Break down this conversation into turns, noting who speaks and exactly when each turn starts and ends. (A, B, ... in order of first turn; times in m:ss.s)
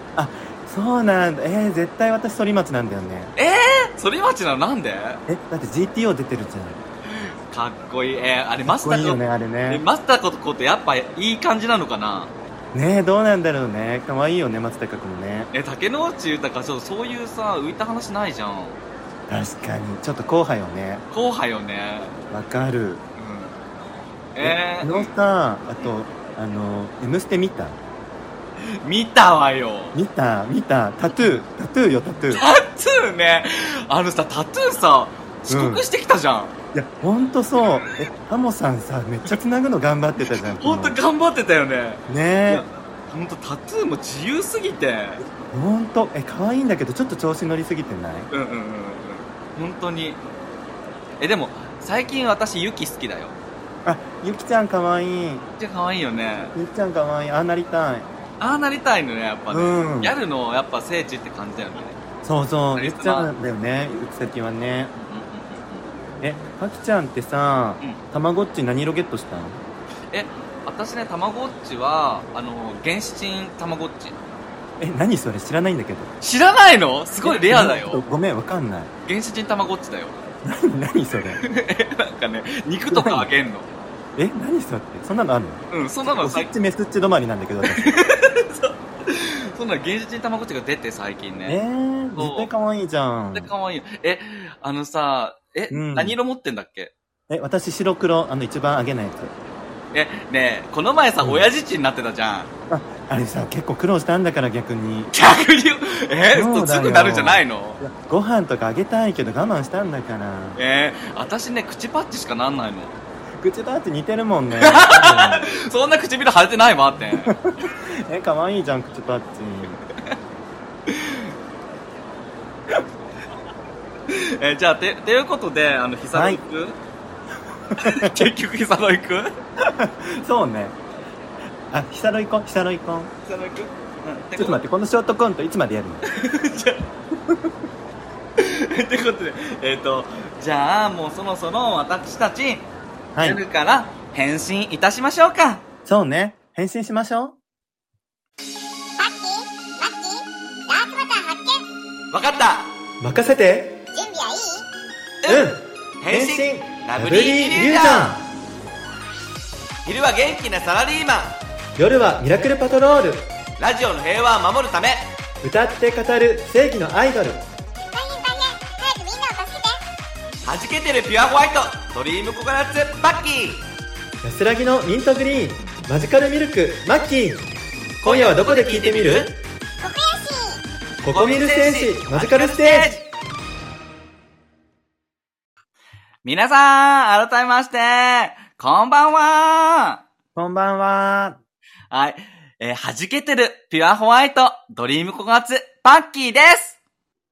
0:00.2-0:03.3 A
0:03.4-0:05.2 B
0:05.3-0:06.8 A
0:07.1-0:12.3 B
0:08.7-0:09.8 A
0:12.7-0:15.5 A
0:15.5-0:18.8 B
0:19.3-0:21.0 A
0:21.1-0:22.2 B
0:22.3-0:23.0 A
0:23.2-0:23.5 B
0:24.3-0:25.1 B
0:24.4-0:27.8 A
0:28.8-0:29.9 B
0:29.9-0:32.4 A
0:32.3-0:36.5 B
0:35.5-0:35.8 A
0:36.7-0:41.0 A
0:40.4-0:45.2 B
0:42.1-0:42.6 A
0:45.3-0:48.3 A
0:48.3-0:50.2 B
0:51.2-0:53.3 B
0:53.8-0:55.5 A
0:55.6-0:56.5 B
0:56.5-0:58.1 A
0:58.4-1:02.0 B
0:59.5-1:00.1 A
1:02.2-1:04.9 A
1:02.8-1:03.3 B
1:04.9-1:05.9 B
1:06.2-1:09.6 A
1:10.1-1:14.2 B
1:14.8-1:16.1 A
1:16.2-1:18.0 B
1:17.2-1:18.9 A
1:19.0-1:20.2 B
1:20.4-1:21.4 A
1:21.4-1:23.7 B
1:22.9-1:23.3 A
1:24.2-1:27.9 A
1:25.7-1:26.5 B
1:27.6-1:31.6 B
1:31.4-1:33.5 A
1:32.2-1:32.5 B
1:33.3-1:36.9 B
1:35.7-1:36.2 A
1:37.3-1:39.3 A
1:39.9-1:42.5 B
1:41.2-1:41.5 A
1:42.7-1:45.1 A
1:45.1-1:47.8 B
1:46.3-1:50.6 A
1:50.6-1:53.0 B
1:53.4-1:55.5 A
1:54.6-1:57.3 B
1:57.2-1:59.8 A
2:00.9-2:01.3 B
2:04.1-2:06.8 B
2:06.1-2:06.4 A
2:07.7-2:08.3 A
2:07.8-2:09.3 B
2:09.6-2:10.8 A
2:11.7-2:13.1 A
2:13.2-2:14.6 B
2:14.4-2:16.0 A
2:16.0-2:16.8 B
2:18.4-2:22.7 B
2:23.1-2:23.4 A
2:23.2-2:25.6 B
2:25.8-2:27.4 A
2:29.0-2:31.6 C
2:32.1-2:32.7 B
2:33.0-2:33.8 A
2:33.9-2:34.6 C
2:35.2-2:38.1 B
2:35.3-2:38.2 A
2:39.8-2:41.4 B
2:41.8-2:43.2 A
2:43.6-2:45.1 B
2:45.4-2:47.4 A
2:47.9-2:49.8 C
2:50.4-2:53.6 B
2:54.2-2:57.4 A
2:58.0-2:59.3 A
2:58.0-2:59.3 B
2:59.8-3:00.6 C
3:01.0-3:02.9 A
3:01.1-3:03.1 B
3:06.2-3:10.0 B
3:10.3-3:11.4 A
3:11.9-3:16.8 B